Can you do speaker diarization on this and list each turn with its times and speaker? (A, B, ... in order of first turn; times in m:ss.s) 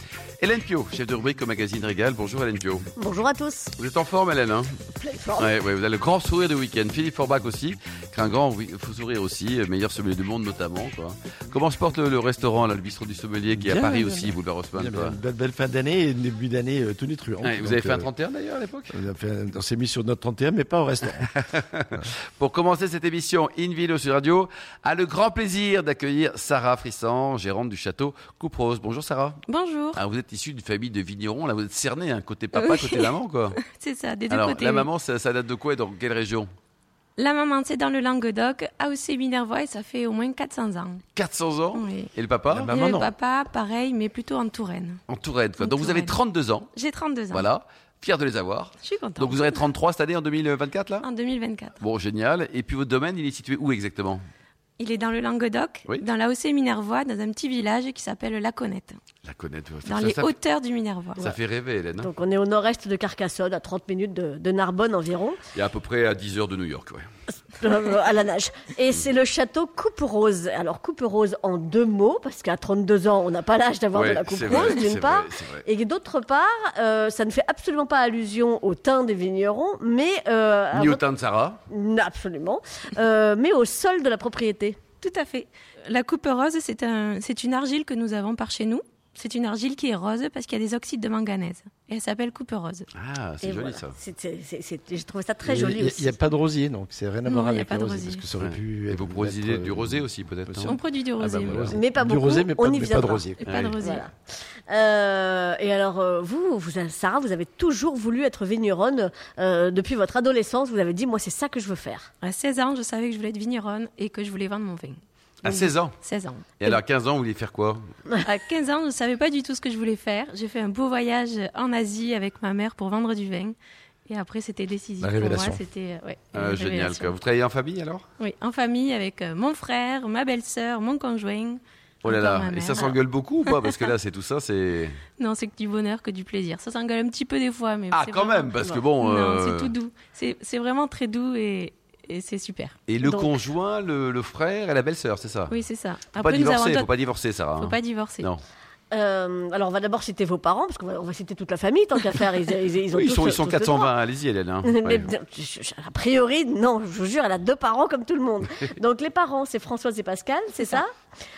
0:00.4-0:02.8 A
0:03.0-0:03.7 B
0:03.8-0:04.7 A
0:04.9-0:05.5 B
0:05.4-0:15.2 A
0:13.5-0:18.1 C
0:17.4-0:19.0 A
0:18.9-0:21.3 C
0:21.3-0:29.4 A
0:29.5-0:30.0 D
0:29.9-0:33.6 A
0:32.6-0:34.9 D
0:34.3-0:36.5 A
0:37.2-0:41.0 D
0:41.2-0:43.1 A
0:41.7-0:45.0 D
0:45.1-0:46.7 A
0:45.6-0:46.2 D
0:46.7-0:47.5 D
0:47.3-0:51.0 A
0:48.8-0:49.6 D
0:51.0-0:51.8 D
0:51.8-0:54.2 A
0:54.8-0:59.0 D
0:59.2-1:00.3 A
0:59.8-1:01.3 D
1:01.2-1:02.1 A
1:02.0-1:05.4 B
1:05.5-1:07.0 A
1:07.5-1:21.0 B
1:13.9-1:15.6 A
1:20.7-1:21.6 A
1:21.7-1:24.8 B
1:25.0-1:32.9 D
1:32.9-1:33.9 A
1:33.4-1:36.1 B
1:35.4-1:40.8 C
1:37.2-1:38.3 D
1:38.4-1:41.8 A
1:40.7-1:41.6 D
1:41.4-1:43.6 C
1:41.7-1:44.1 B
1:43.5-1:43.7 A
1:43.5-1:44.0 D
1:44.7-1:52.1 B
1:52.2-1:56.8 D
1:55.4-1:56.0 A
1:56.6-1:57.8 A
1:58.2-2:03.6 D
2:04.1-2:07.1 D
2:05.0-2:05.6 C
2:06.3-2:08.0 A
2:08.2-2:13.9 D
2:12.0-2:15.0 A
2:15.2-2:22.8 D
2:17.9-2:19.7 A
2:22.9-2:25.5 A
2:23.0-2:23.4 B
2:25.5-2:26.9 D
2:26.2-2:28.4 A
2:27.6-2:28.3 D
2:28.9-2:33.9 B
2:32.9-2:35.1 A
2:34.6-2:40.9 B
2:40.6-2:40.8 D